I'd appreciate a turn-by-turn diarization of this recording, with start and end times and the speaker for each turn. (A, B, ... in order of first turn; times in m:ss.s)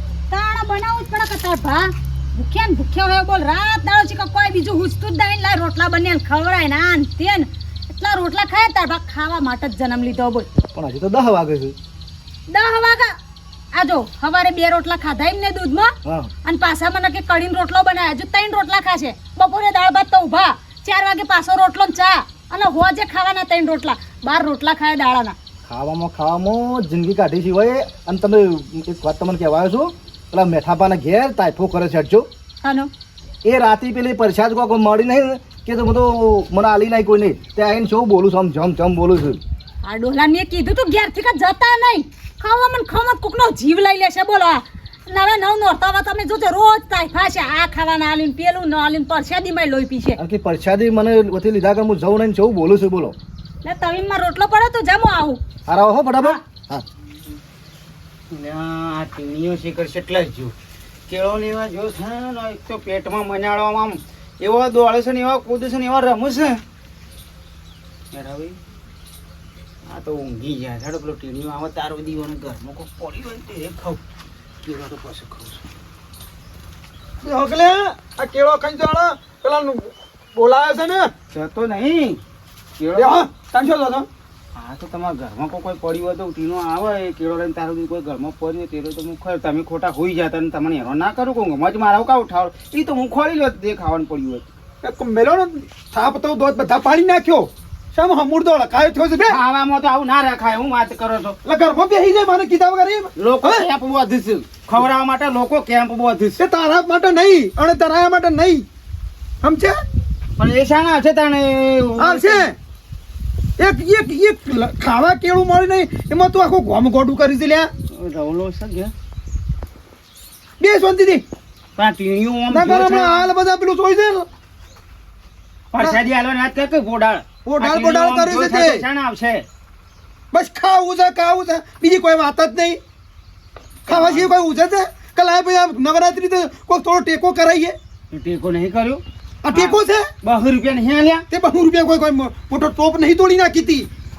0:00.3-0:10.5 A
0:10.7-0:11.8 B
0:12.5-0:13.2 A
0:13.7-0:25.4 A
0:16.0-0:16.3 B
0:25.7-0:32.3 B
0:32.6-0:32.9 A
0:33.4-0:39.4 B
0:39.8-0:50.2 A
0:50.2-0:53.2 B
0:53.6-0:55.4 A
0:55.7-0:56.8 B
0:58.3-1:00.5 C
1:01.1-1:06.6 C
1:08.1-1:08.6 C
1:09.9-1:14.0 C
1:14.6-1:15.6 C
1:17.2-1:21.1 D
1:21.3-1:22.2 C
1:22.8-1:23.2 C
1:23.0-1:24.1 D
1:24.6-1:34.5 C
1:34.8-1:39.4 D
1:39.2-1:41.4 C
1:41.4-1:43.7 D
1:43.2-1:46.4 C
1:46.4-1:48.6 D
1:49.4-1:49.8 D
1:50.4-1:52.5 C
1:52.0-1:52.6 D
1:53.6-1:57.7 D
1:57.9-1:58.9 C
2:00.6-2:01.2 D
2:01.8-2:03.3 C
2:02.5-2:04.3 D
2:05.7-2:09.4 C
2:07.5-2:08.8 D
2:10.3-2:12.8 D
2:13.9-2:17.8 D
2:13.9-2:14.3 C
2:18.1-2:21.2 C
2:19.4-2:20.1 D
2:21.3-2:23.9 D